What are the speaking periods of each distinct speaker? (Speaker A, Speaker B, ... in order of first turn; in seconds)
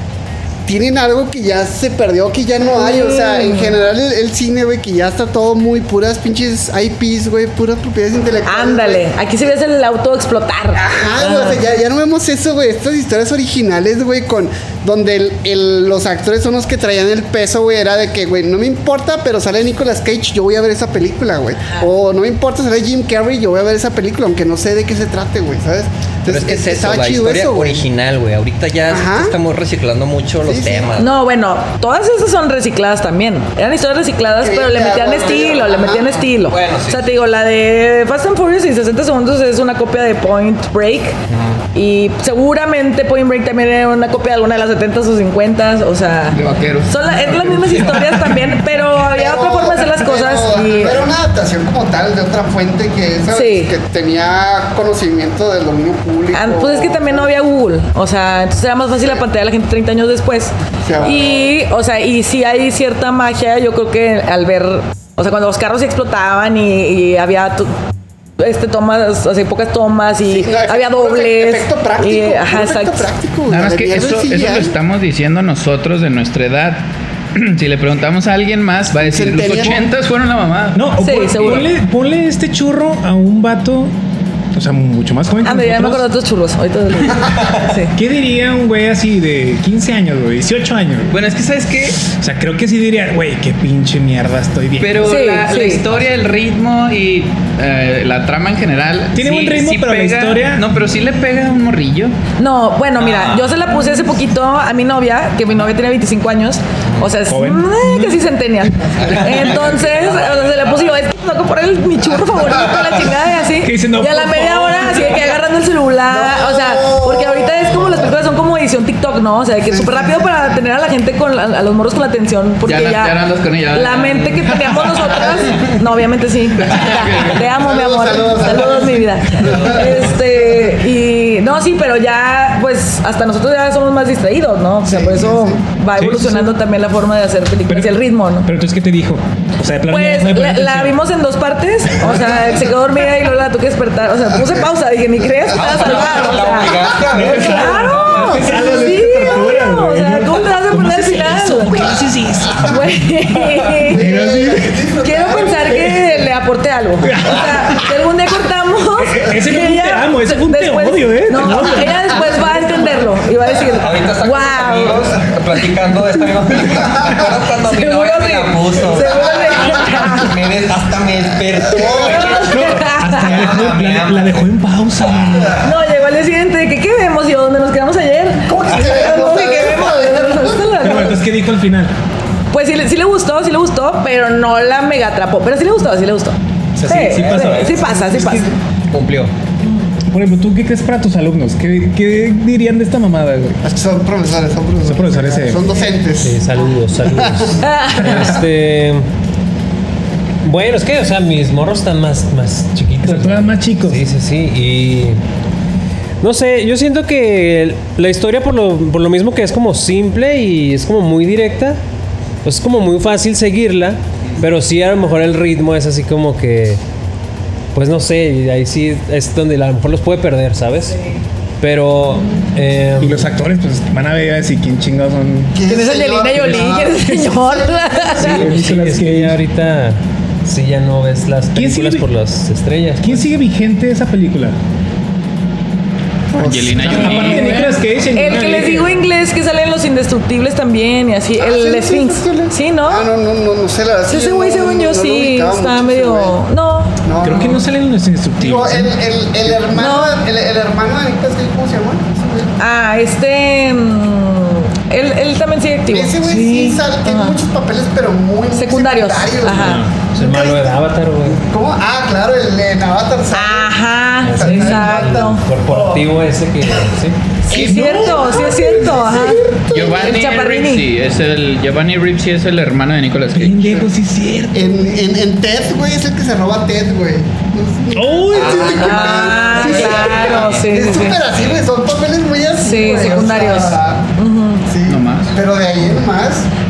Speaker A: 0.7-9.1, 10.7-27.9, 28.9-29.4, 30.4-30.9, 34.4-36.2, 48.9-57.3, 60.8-61.5, 70.3-74.8, 79.0-79.8, 116.1-118.2, 119.7-120.6, 125.1-125.7, 127.4-130.0, 134.8-135.7, 153.9-156.1, 162.4-163.0, 169.0-170.1, 171.6-172.6, 178.5-180.7, 187.6-188.6, 193.6-196.5, 197.1-197.6, 225.5-228.4, 236.3-237.4, 241.4-246.4, 247.0-247.7, 248.4-252.6, 255.9-260.8, 261.3-263.7, 264.3-266.1, 267.5-269.9, 274.5-284.1, 284.7-286.5
Speaker B: 2.7-3.8, 8.5-11.6, 31.0-41.2, 41.7-51.1, 53.3-53.7, 56.3-67.8, 68.4-73.1, 81.0-81.7, 85.4-87.9, 95.0-95.8, 102.4-123.2, 123.7-138.5, 139.9-151.9, 152.6-154.1, 155.0-165.1, 167.6-170.4, 172.0-173.4, 175.6-181.2, 182.5-188.5, 197.6-198.3, 225.7-228.4, 236.9-243.1, 244.1-246.9, 249.7-250.2, 252.6-256.5, 257.0-257.4, 258.5-259.8, 263.3-265.4, 267.4-270.9, 278.4-281.2, 282.6-284.6
Speaker C: 26.3-31.1, 36.4-37.1, 41.3-41.6, 106.9-107.1, 109.0-110.7, 129.6-130.2, 145.5-148.8, 163.7-175.6, 187.0-188.2, 188.9-189.3, 278.3-280.7, 281.3-281.6
Speaker D: 46.3-48.4, 73.5-76.8, 77.3-80.9, 81.4-81.7, 91.1-92.0, 94.8-102.2, 122.7-124.9, 126.6-127.4, 236.4-237.7, 269.7-273.9, 284.9-285.3
Speaker E: 80.7-83.9, 84.5-86.1, 88.0-91.2, 92.0-95.2, 99.2-100.7, 107.3-108.2, 113.6-115.3, 135.9-136.6, 137.7-141.0, 147.1-154.8, 157.0-157.9, 158.9-162.4, 172.5-175.6, 180.8-181.9, 186.8-187.7, 190.1-193.6, 194.8-195.6, 203.0-204.0, 223.0-225.6, 228.2-229.4, 231.6-232.1, 233.0-234.6, 236.5-239.0, 247.2-248.9, 256.3-256.8, 259.6-260.1, 267.5-268.4, 273.3-274.6, 277.9-280.2
Speaker F: 196.2-199.1, 200.4-205.2, 206.2-211.8, 212.4-216.8, 217.7-223.3, 228.2-233.3, 260.1-261.4, 264.2-267.2